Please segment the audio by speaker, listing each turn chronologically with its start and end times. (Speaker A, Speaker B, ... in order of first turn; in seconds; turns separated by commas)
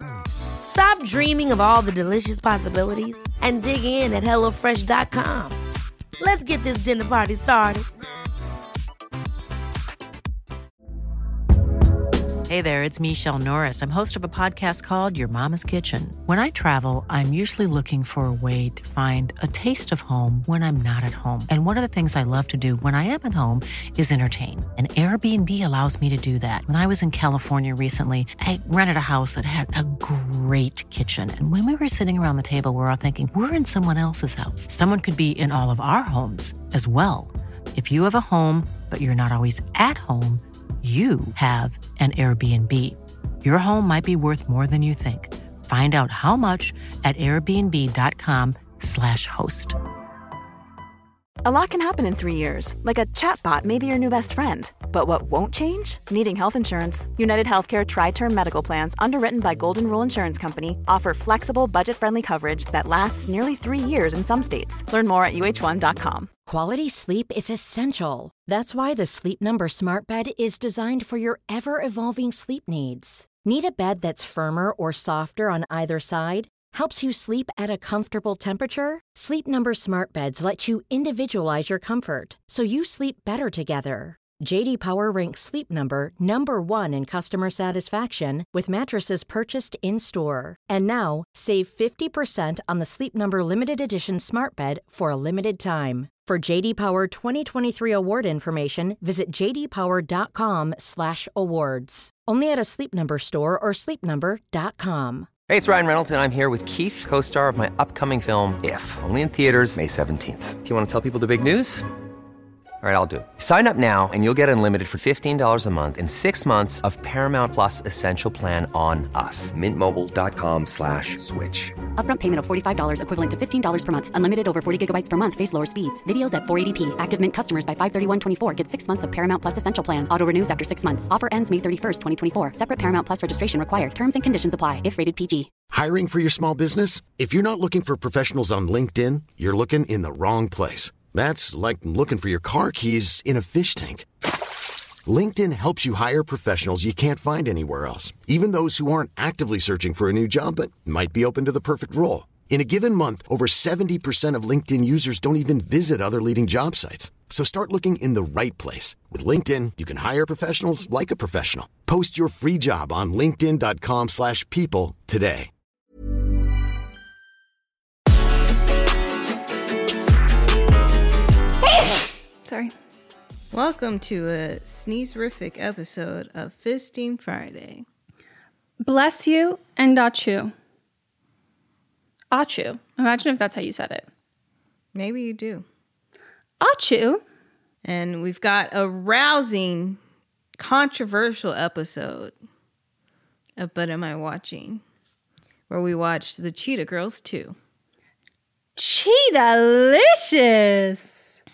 Speaker A: 0.6-5.6, Speaker A: 6.2-7.8, Speaker B: 12.5-49.8, Speaker C: 51.4-66.3, Speaker D: 66.5-105.3, Speaker E: 105.5-111.8, Speaker E: 112.8-121.8, Speaker F: 122.0-135.5, Speaker G: 135.7-144.1, Speaker G: 145.1-165.5, Speaker H: 172.4-172.7, Speaker I: 173.5-177.8, Speaker H: 178.8-180.5, Speaker H: 182.3-184.1, Speaker I: 184.9-185.7, Speaker H: 186.6-187.2, Speaker I: 187.8-190.0, Speaker I: 190.6-192.3, Speaker I: 193.6-194.8, Speaker I: 195.7-197.6, Speaker H: 198.8-201.4